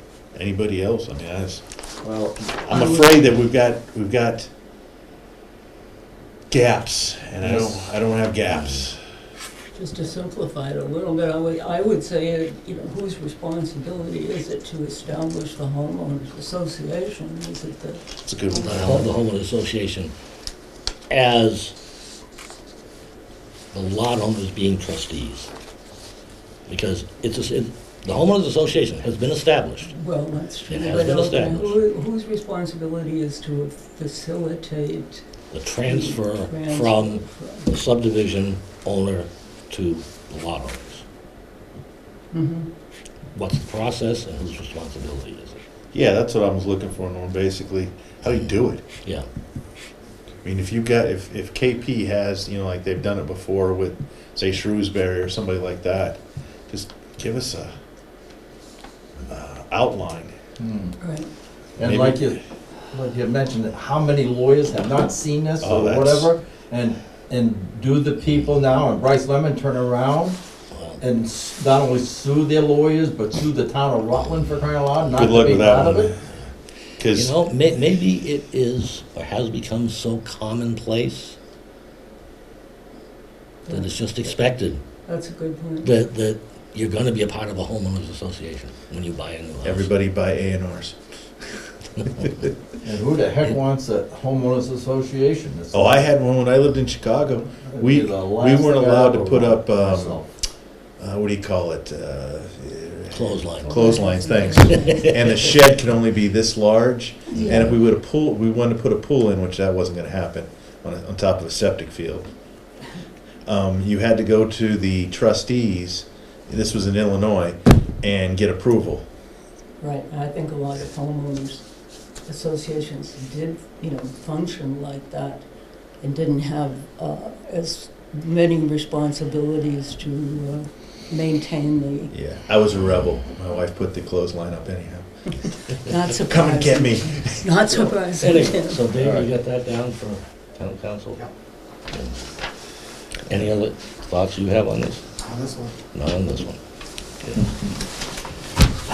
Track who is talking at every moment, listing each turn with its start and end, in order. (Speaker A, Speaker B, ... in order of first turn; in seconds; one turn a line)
Speaker A: 0.3-1.6
Speaker B: 2.0-2.5
Speaker A: 2.6-4.5
Speaker C: 2.7-3.2
Speaker A: 6.5-9.0
Speaker B: 7.4-8.0
Speaker D: 8.5-8.8
Speaker C: 9.7-18.0
Speaker A: 18.2-19.1
Speaker C: 18.6-19.0
Speaker D: 18.6-20.1
Speaker D: 21.1-21.7
Speaker D: 23.7-25.5
Speaker D: 26.7-29.9
Speaker C: 29.9-35.2
Speaker D: 30.7-31.8
Speaker D: 35.5-41.0
Speaker C: 35.8-37.8
Speaker C: 42.3-42.7
Speaker D: 43.3-45.6
Speaker A: 45.9-48.8
Speaker D: 48.2-48.5
Speaker A: 50.4-57.7
Speaker A: 59.3-60.3
Speaker B: 60.6-61.0
Speaker C: 61.0-61.3
Speaker B: 61.8-62.4
Speaker A: 61.8-62.3
Speaker B: 62.9-70.3
Speaker A: 65.6-66.3
Speaker D: 70.7-71.0
Speaker B: 71.0-76.1
Speaker A: 75.1-76.2
Speaker A: 77.0-77.3
Speaker D: 77.1-81.3
Speaker C: 83.7-83.9
Speaker D: 83.7-84.8
Speaker C: 85.0-86.0
Speaker D: 85.8-89.9
Speaker A: 89.6-91.0
Speaker B: 92.8-96.1
Speaker A: 95.7-100.2
Speaker B: 97.7-100.3
Speaker A: 101.0-112.3
Speaker D: 103.1-103.8
Speaker C: 103.6-105.3
Speaker D: 104.6-105.3
Speaker D: 107.3-107.8
Speaker C: 107.3-107.7
Speaker A: 113.5-119.0
Speaker C: 119.8-121.6
Speaker C: 122.2-125.5
Speaker C: 126.0-132.1
Speaker A: 132.1-135.1
Speaker C: 135.9-138.9
Speaker A: 136.2-137.8
Speaker D: 138.1-141.2
Speaker D: 143.3-145.0
Speaker D: 145.9-146.6